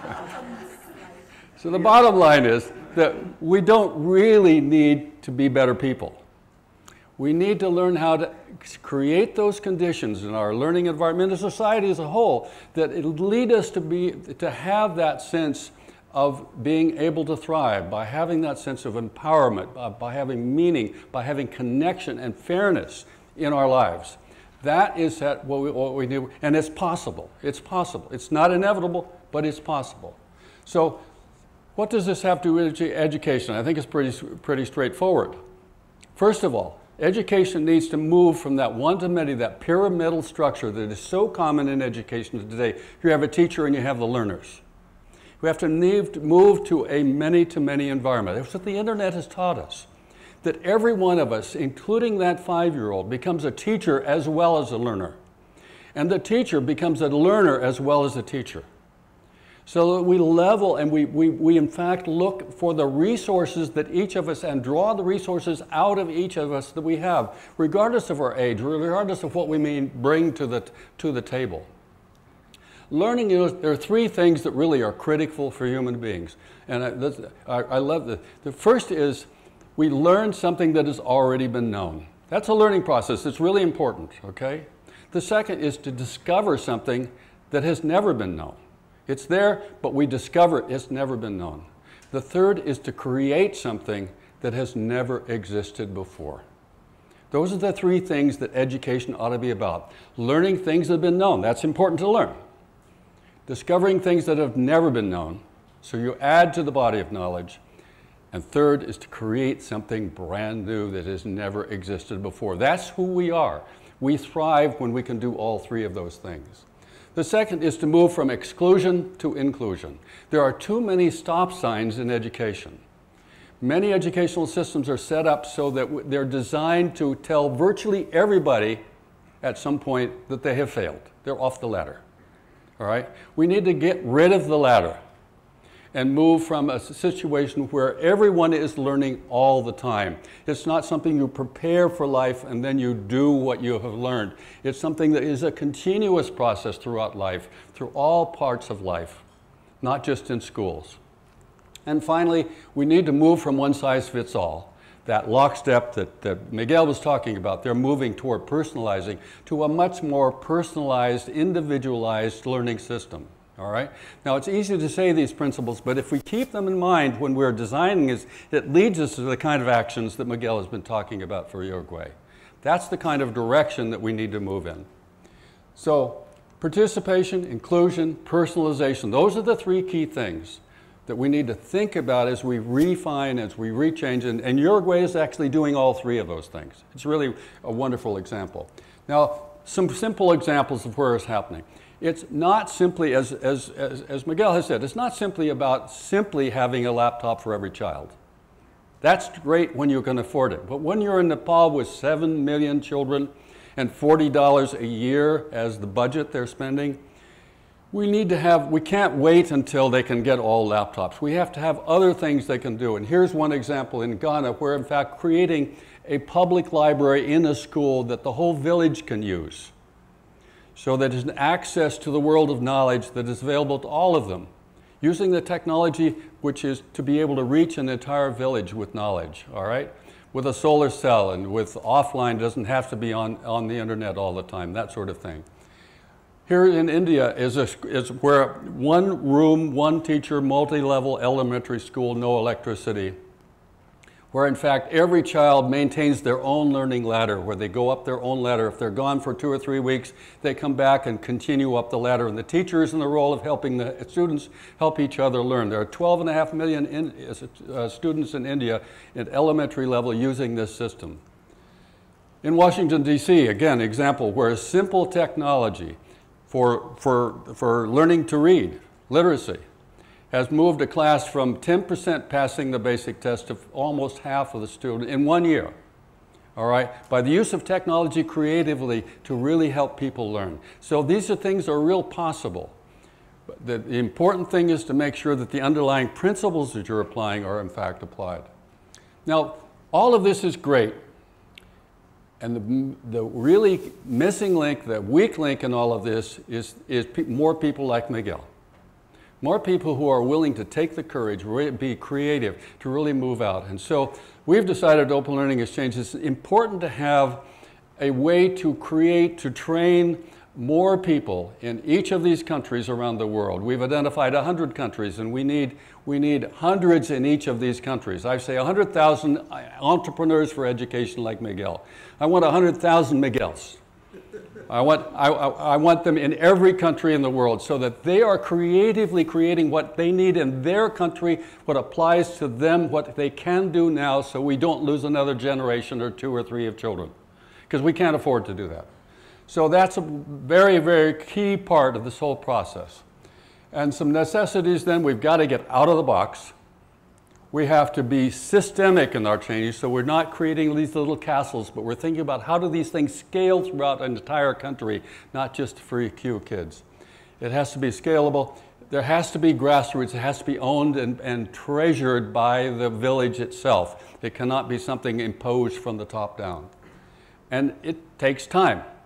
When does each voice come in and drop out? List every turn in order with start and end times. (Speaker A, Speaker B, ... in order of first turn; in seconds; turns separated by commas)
Speaker A: 1.6-6.2, Speaker A: 7.2-31.0, Speaker A: 31.8-35.4, Speaker A: 36.1-44.6, Speaker A: 45.4-49.9, Speaker A: 50.4-55.2, Speaker A: 56.0-58.7, Speaker A: 59.7-71.7, Speaker A: 72.9-96.4, Speaker A: 97.3-102.4, Speaker A: 103.5-107.6, Speaker A: 108.3-122.8, Speaker A: 123.6-128.8, Speaker A: 129.4-132.0, Speaker A: 132.8-135.0, Speaker A: 135.9-149.2, Speaker A: 149.8-151.0, Speaker A: 151.9-174.9, Speaker A: 175.8-198.2, Speaker A: 199.0-207.0, Speaker A: 207.9-219.7, Speaker A: 220.8-224.5, Speaker A: 225.0-235.4, Speaker A: 236.5-243.2, Speaker A: 244.3-261.2, Speaker A: 262.4-269.6, Speaker A: 270.3-275.7, Speaker A: 276.6-282.8, Speaker A: 283.5-288.5, Speaker A: 289.3-291.0, Speaker A: 292.4-298.5, Speaker A: 299.4-307.5, Speaker A: 308.0-323.8, Speaker A: 324.7-337.1, Speaker A: 337.7-338.9, Speaker A: 339.5-343.1, Speaker A: 343.7-346.5, Speaker A: 347.5-356.8, Speaker A: 357.4-366.7, Speaker A: 367.5-368.9